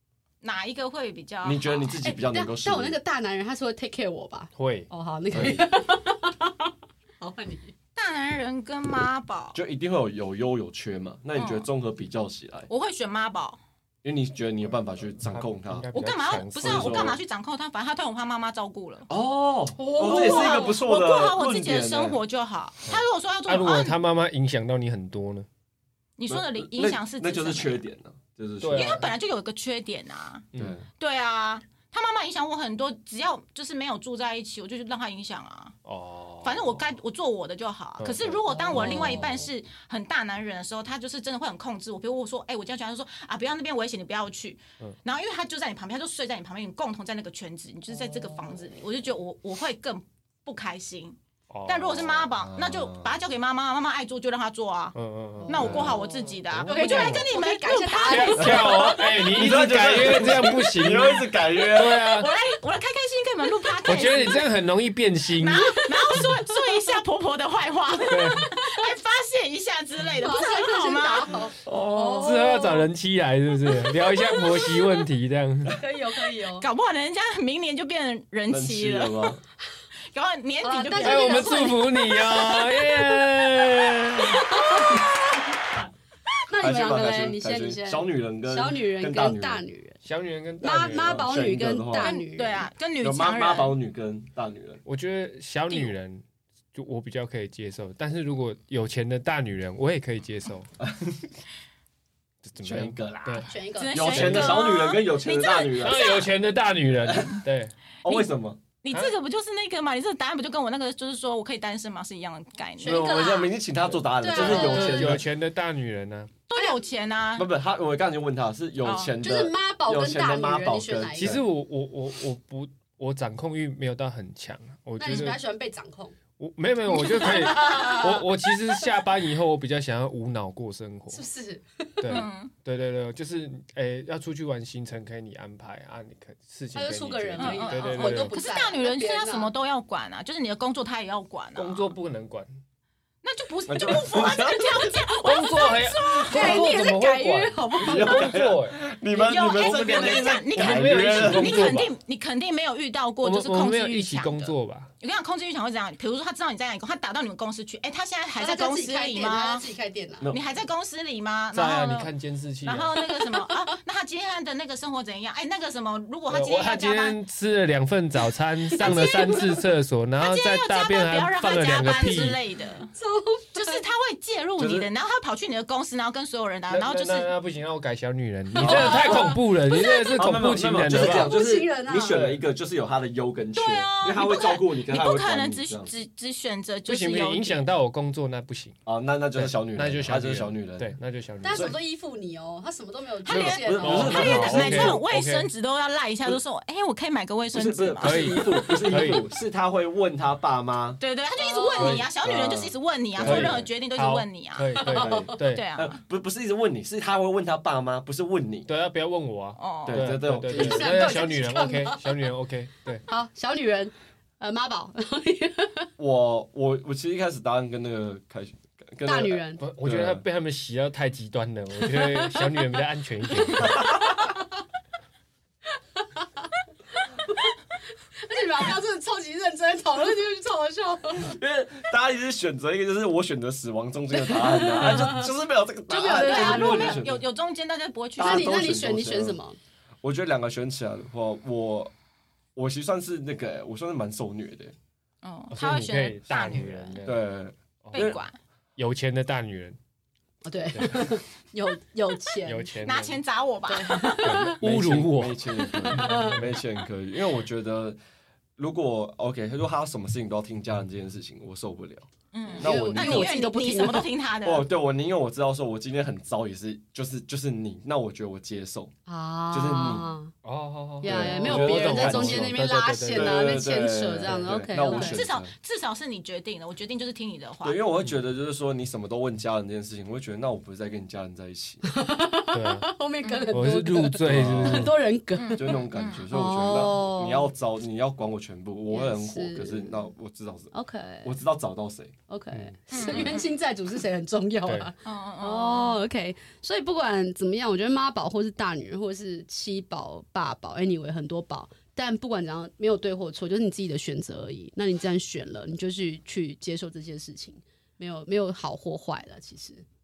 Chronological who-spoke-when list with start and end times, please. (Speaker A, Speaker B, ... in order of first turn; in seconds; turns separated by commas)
Speaker A: 0.4-2.1, Speaker B: 1.4-3.0, Speaker C: 2.0-7.7, Speaker D: 4.6-4.9, Speaker A: 8.0-9.6, Speaker B: 9.5-12.7, Speaker A: 11.3-11.7, Speaker A: 12.7-13.6, Speaker B: 14.0-15.9, Speaker D: 15.3-17.2, Speaker A: 15.9-19.1, Speaker B: 16.6-17.2, Speaker B: 19.1-22.2, Speaker C: 19.8-20.8, Speaker A: 20.0-23.9, Speaker D: 22.9-25.5, Speaker A: 26.2-27.8, Speaker B: 26.3-29.1, Speaker D: 28.6-29.1, Speaker A: 28.7-30.5, Speaker B: 30.6-30.9, Speaker A: 31.0-35.8, Speaker D: 35.9-36.8, Speaker A: 36.4-55.0, Speaker D: 38.0-39.3, Speaker C: 38.6-39.5, Speaker D: 51.5-52.3, Speaker B: 52.4-53.2, Speaker D: 55.0-57.3, Speaker C: 55.4-59.0, Speaker A: 55.5-58.9, Speaker B: 55.6-56.0, Speaker D: 58.1-62.3, Speaker B: 58.4-62.0, Speaker A: 61.6-64.5, Speaker D: 63.9-65.8, Speaker A: 65.4-71.4, Speaker C: 65.8-66.4, Speaker D: 68.1-68.5, Speaker C: 70.2-72.8, Speaker B: 71.7-72.4, Speaker A: 72.2-72.6, Speaker D: 72.2-75.8, Speaker A: 74.2-74.9, Speaker C: 75.7-76.7, Speaker A: 76.5-79.4, Speaker B: 78.5-79.4, Speaker A: 80.1-81.9, Speaker C: 80.6-82.0, Speaker D: 81.0-84.6, Speaker C: 84.2-85.1, Speaker C: 86.5-90.0, Speaker B: 86.6-89.6, Speaker D: 90.0-91.3, Speaker C: 90.6-92.7, Speaker B: 90.8-92.2, Speaker A: 92.0-93.8, Speaker B: 93.0-94.8, Speaker D: 94.9-100.7, Speaker A: 95.7-95.9, Speaker B: 100.8-101.3, Speaker D: 102.4-103.5, Speaker B: 102.6-106.2, Speaker C: 103.5-104.7, Speaker A: 103.8-106.3, Speaker D: 104.2-104.5, Speaker D: 105.8-107.7, Speaker B: 107.1-107.4, Speaker B: 108.0-108.6, Speaker A: 108.0-113.3, Speaker C: 112.8-115.2, Speaker B: 112.8-115.3, Speaker A: 114.3-114.9, Speaker D: 114.3-116.3, Speaker A: 116.5-117.5, Speaker B: 117.4-121.4, Speaker A: 118.8-119.2, Speaker C: 119.2-121.4, Speaker D: 121.2-125.4, Speaker C: 125.0-126.2, Speaker D: 126.4-131.2, Speaker C: 127.1-128.2, Speaker C: 131.1-132.3, Speaker D: 132.0-138.4, Speaker A: 132.1-132.5, Speaker C: 136.7-139.5, Speaker A: 137.4-141.9, Speaker D: 141.6-142.5, Speaker A: 143.2-146.7, Speaker B: 143.7-144.9, Speaker D: 145.2-148.8, Speaker C: 146.2-148.3, Speaker B: 147.8-151.8, Speaker A: 149.1-159.7, Speaker D: 149.6-151.9, Speaker D: 153.2-154.9, Speaker C: 158.4-160.3, Speaker B: 160.2-160.5, Speaker A: 160.3-162.1, Speaker D: 161.5-163.0, Speaker A: 162.6-167.2, Speaker C: 163.1-163.6, Speaker D: 166.3-172.4, Speaker A: 168.8-169.4, Speaker C: 168.9-169.4, Speaker A: 170.2-172.9, Speaker C: 172.9-173.8, Speaker A: 173.5-177.3, Speaker B: 174.6-174.9, Speaker D: 176.7-181.3, Speaker B: 178.6-179.3, Speaker C: 178.6-182.3, Speaker A: 178.6-179.3, Speaker B: 180.2-185.9, Speaker D: 182.1-182.4, Speaker A: 183.5-187.7, Speaker D: 186.9-188.8, Speaker B: 188.9-190.9, Speaker D: 189.3-191.8, Speaker C: 191.4-194.5, Speaker B: 191.5-191.8, Speaker A: 193.2-199.2, Speaker B: 193.3-195.0, Speaker D: 193.8-195.5, Speaker B: 197.5-201.0, Speaker D: 198.0-199.2, Speaker A: 201.0-206.0, Speaker C: 201.4-202.0, Speaker D: 201.8-205.7, Speaker B: 203.2-203.7, Speaker C: 204.8-205.3, Speaker B: 204.9-208.7, Speaker D: 208.7-213.0, Speaker A: 209.6-210.2, Speaker B: 209.9-211.2, Speaker C: 210.4-212.2, Speaker C: 213.1-215.9, Speaker B: 216.0-220.2, Speaker C: 219.1-219.6, Speaker D: 219.6-223.9, Speaker C: 221.8-222.6, Speaker B: 223.7-224.2, Speaker C: 226.1-227.4, Speaker C: 228.2-231.3, Speaker B: 231.2-237.2, Speaker C: 234.2-235.3, Speaker A: 234.8-235.2, Speaker C: 235.9-237.0, Speaker A: 236.0-238.5, Speaker B: 238.2-239.4, Speaker C: 238.2-239.6, Speaker B: 240.0-241.9, Speaker B: 242.6-244.8, Speaker A: 245.2-247.0, Speaker D: 245.5-247.3, Speaker B: 247.0-248.2, Speaker D: 247.8-248.2, Speaker A: 247.9-248.4, Speaker D: 248.8-249.8, Speaker C: 250.4-252.7, Speaker D: 250.7-251.2, Speaker D: 252.4-253.2, Speaker A: 252.8-254.4, Speaker C: 253.7-254.6, Speaker D: 254.2-256.4, Speaker B: 254.6-258.0, Speaker C: 255.7-256.4, Speaker B: 258.6-263.3, Speaker A: 262.3-264.7, Speaker C: 262.6-264.1, Speaker D: 262.6-263.3, Speaker B: 264.4-268.9, Speaker C: 269.1-270.3, Speaker B: 269.5-270.1, Speaker D: 270.4-273.6, Speaker C: 271.0-275.2, Speaker B: 271.0-272.5, Speaker B: 273.1-275.5, Speaker A: 274.9-277.8, Speaker B: 277.6-281.9, Speaker C: 281.9-287.5, Speaker D: 282.5-282.9, Speaker A: 283.2-283.6, Speaker D: 283.5-285.0, Speaker B: 284.2-284.9, Speaker A: 285.4-286.3, Speaker B: 285.5-290.7, Speaker C: 288.9-290.1, Speaker C: 290.7-291.3, Speaker B: 291.2-292.1, Speaker C: 292.3-309.9, Speaker A: 292.9-293.5, Speaker B: 293.0-293.3, Speaker D: 294.6-294.9, Speaker A: 295.0-296.0